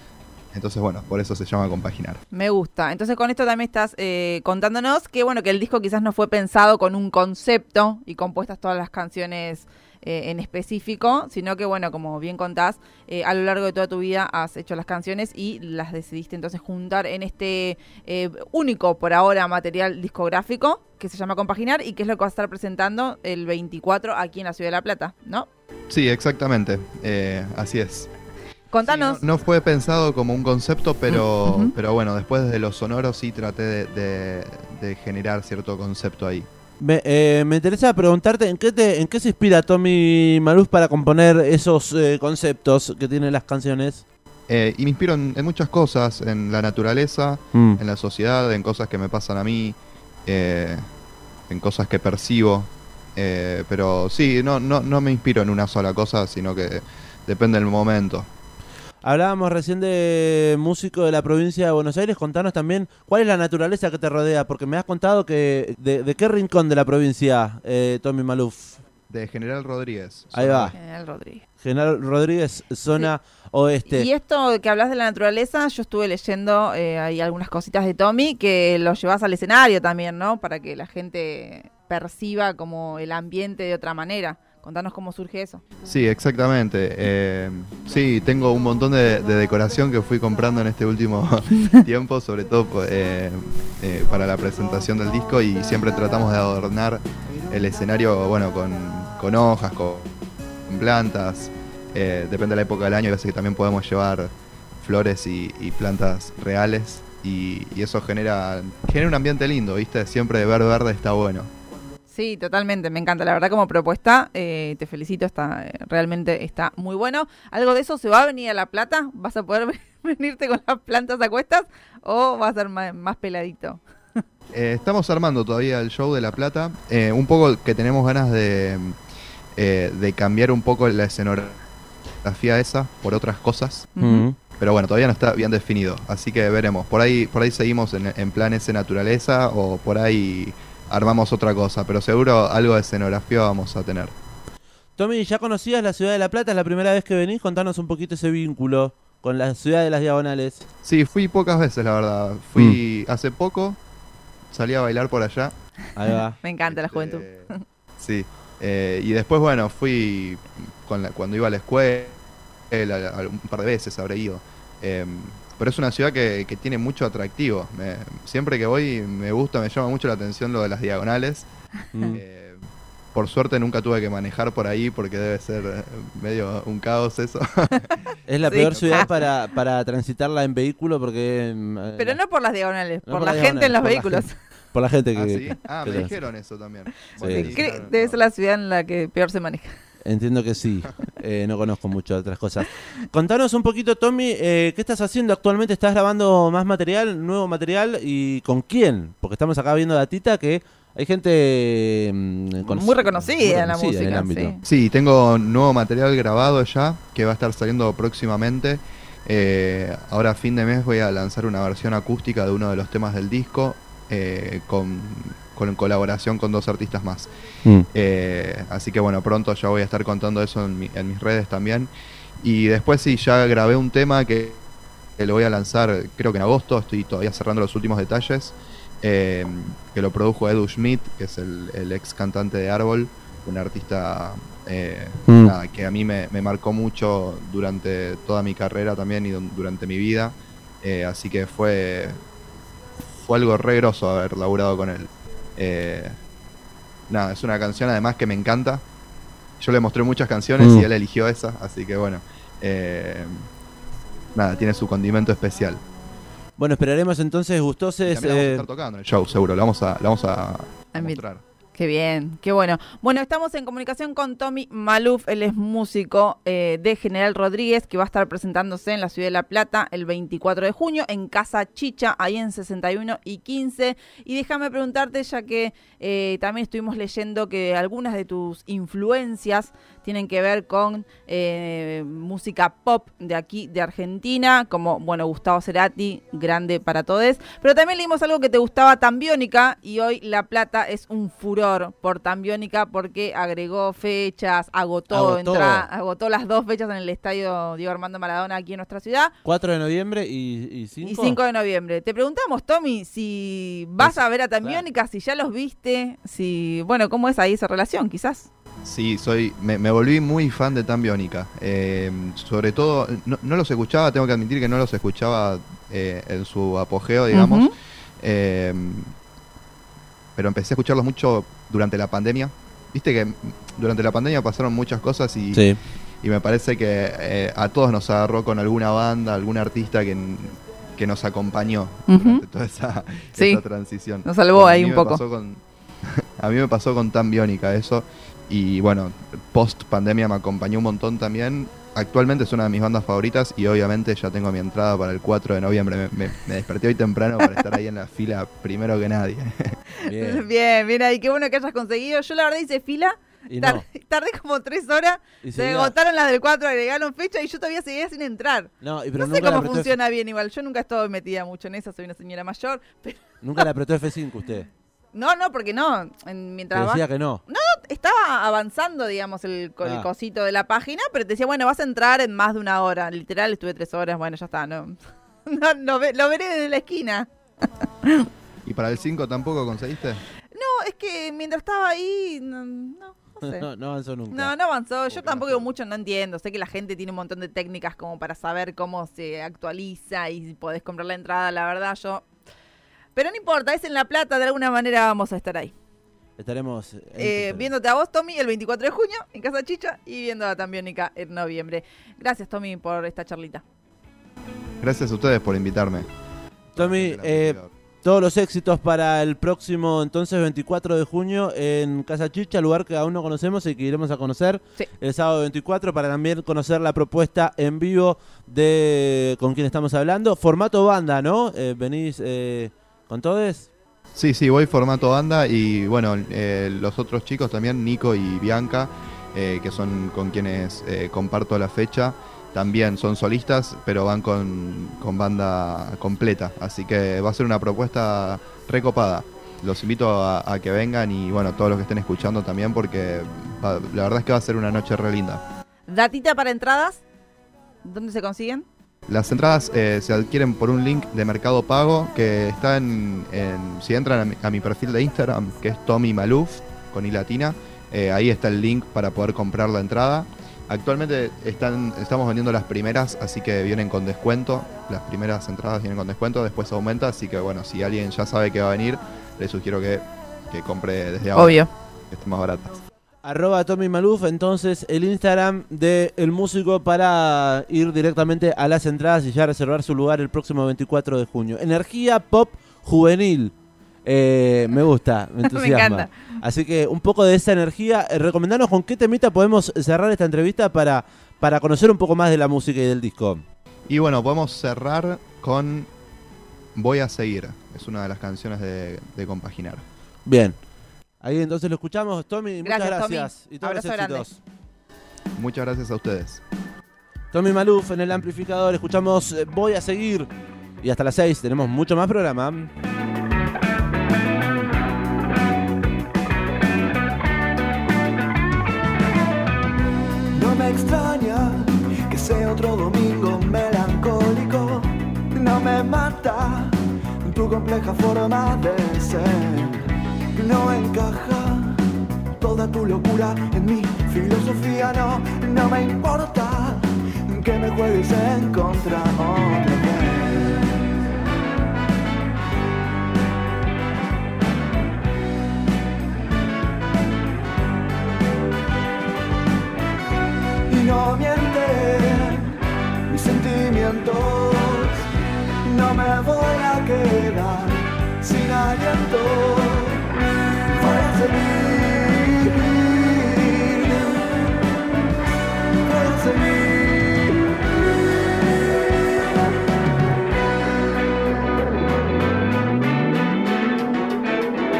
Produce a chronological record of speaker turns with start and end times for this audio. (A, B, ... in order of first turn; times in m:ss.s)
0:00.5-0:02.2 A
0:02.3-0:25.5 B
0:25.9-0:28.1 A
0:28.7-0:29.2 B
0:28.8-0:36.5 A
0:31.1-0:31.7 B
0:36.8-0:44.0 C
0:44.5-0:50.8 A
0:51.5-0:58.3 A
0:59.0-1:08.8 C
1:09.1-1:10.8 A
1:10.3-1:10.7 C
1:10.7-1:11.4 B
1:11.6-1:14.1 C
1:13.9-1:25.6 B
1:25.9-1:40.1 A
1:40.7-1:51.5 A
1:52.1-2:04.2 B
2:04.5-2:09.0 A
2:09.6-2:11.6 A
2:12.2-2:13.9 A
2:14.0-2:14.2 B
2:14.0-2:14.4 C
2:14.6-2:24.1 A
2:25.0-2:30.6 C
2:30.8-2:33.8 A
2:34.5-2:35.5 A
2:36.0-2:36.4 C
2:36.4-2:37.6 B
2:36.6-2:42.2 A
2:42.7-2:51.5 A
2:51.9-2:52.2 C
2:52.1-2:59.2 A
2:58.3-3:02.2 C
2:58.4-2:59.1 B
3:02.0-3:04.3 B
3:03.0-3:06.2 C
3:05.1-3:08.2 A
3:07.2-3:09.8 B
3:07.2-3:07.6 C
3:10.0-3:24.6 C
3:22.6-3:24.6 B
3:24.6-3:37.3 A
3:37.9-3:44.6 A
3:45.2-4:02.2 A
3:55.3-3:55.5 C
4:03.2-4:06.2 A
4:07.1-4:08.8 A
4:09.6-4:13.4 A
4:10.6-4:10.9 C
4:14.3-4:15.8 A
4:16.6-4:18.7 C
4:18.1-4:21.4 A
4:20.9-4:21.2 B
4:21.7-4:59.3 B
4:55.1-4:55.9 C
4:59.4-5:01.4 C
5:01.0-5:08.5 B
5:04.0-5:04.8 C
5:08.8-5:17.7 A
5:17.3-5:17.7 B
5:18.2-5:19.1 A
5:20.4-5:25.7 A
5:25.5-5:25.8 C
5:26.2-5:49.8 A
5:32.1-5:32.4 B
5:33.4-5:33.6 B
5:34.2-5:35.2 B
5:50.0-6:03.6 B
5:50.0-5:50.5 C
5:53.5-5:53.8 C
5:55.4-5:55.9 C
5:58.8-5:59.9 C
6:03.4-6:04.7 C
6:05.1-6:17.3 B
6:06.7-6:07.4 C
6:09.8-6:10.1 C
6:17.8-6:18.3 B
6:18.6-6:20.2 A
6:20.5-6:23.7 B
6:23.4-6:24.5 C
6:24.3-6:32.3 B
6:25.1-6:25.6 A
6:33.1-6:35.7 B
6:36.4-6:37.7 C
6:37.2-6:43.6 B
6:44.8-6:46.1 A
6:46.7-7:03.7 C
6:46.8-6:47.7 A
7:04.1-7:25.4 A
7:25.9-7:27.0 B
7:27.8-7:28.6 B
7:29.1-7:52.8 A
7:51.3-7:51.7 B
7:53.2-8:03.5 C
8:04.0-8:13.4 C
8:05.4-8:06.1 B
8:13.9-8:15.9 A
8:16.7-8:19.8 A
8:20.2-8:20.5 C
8:21.2-8:24.4 C
8:22.6-8:24.3 B
8:25.4-8:26.4 A
8:27.3-8:30.3 C
8:30.8-8:32.7 C
8:40.3-8:51.8 D
8:52.4-9:00.7 D
9:10.7-9:15.0 D
9:15.6-9:20.1 D
9:20.7-9:24.6 D
9:25.8-9:27.5 D